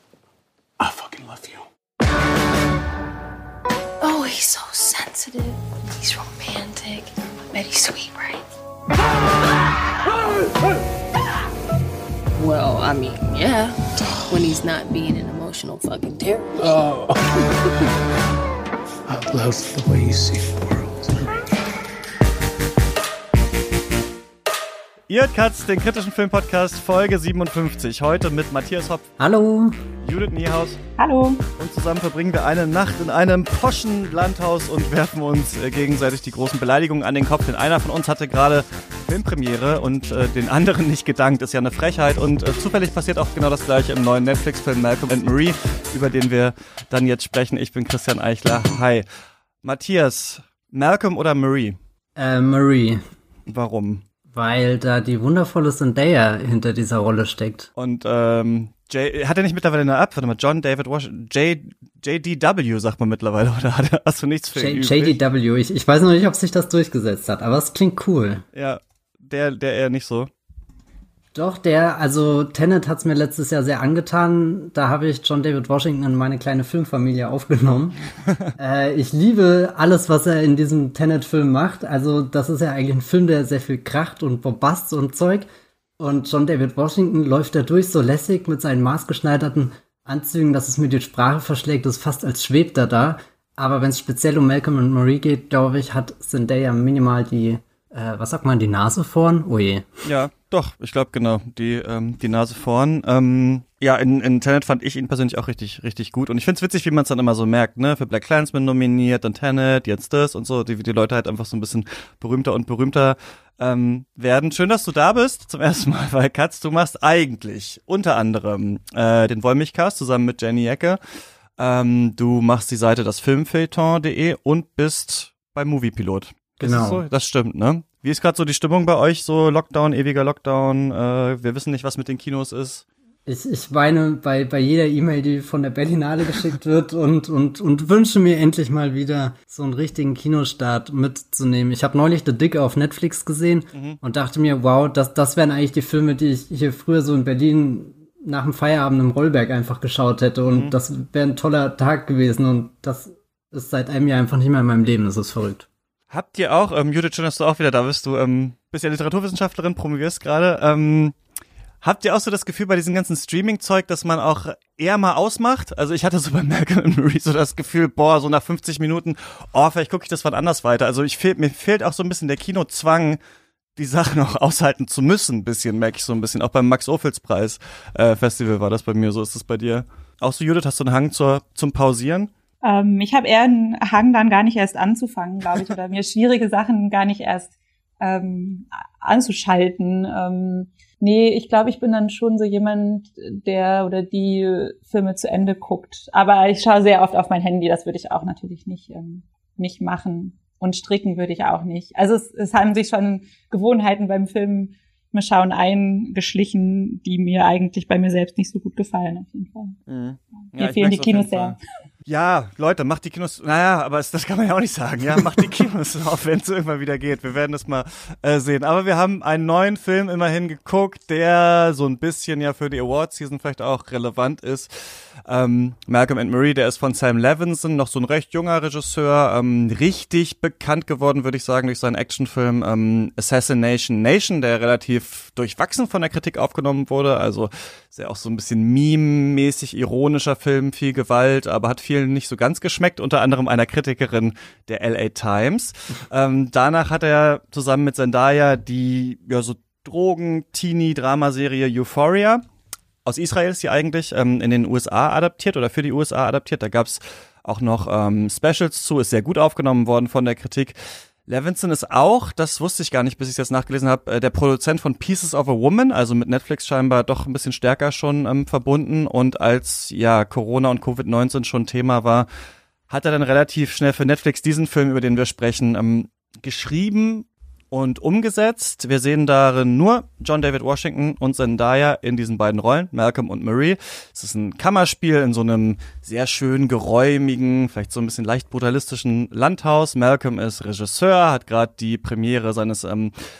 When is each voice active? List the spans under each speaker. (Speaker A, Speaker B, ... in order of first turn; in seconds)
Speaker A: 0.8-1.6, 16.6-17.4, 19.1-21.4
Speaker B: 4.0-8.4, 12.4-16.8
Speaker C: 25.1-29.1, 30.0-30.8, 31.6-49.0, 49.6-51.8, 53.5-54.0, 57.8-65.2, 68.5-70.3, 100.0-121.0, 121.6-132.8, 143.7-144.0, 150.5-150.7, 156.1-161.1, 161.8-173.2, 173.8-182.3, 209.9-252.4, 253.0-272.3, 272.9-293.1
Speaker D: 29.2-29.8, 52.2-53.0, 54.3-57.7, 64.5-68.4, 71.3-78.0, 78.6-85.5, 86.0-99.9, 126.6-127.0, 133.2-155.7
Speaker E: 31.0-31.4, 182.6-209.8, 210.6-211.6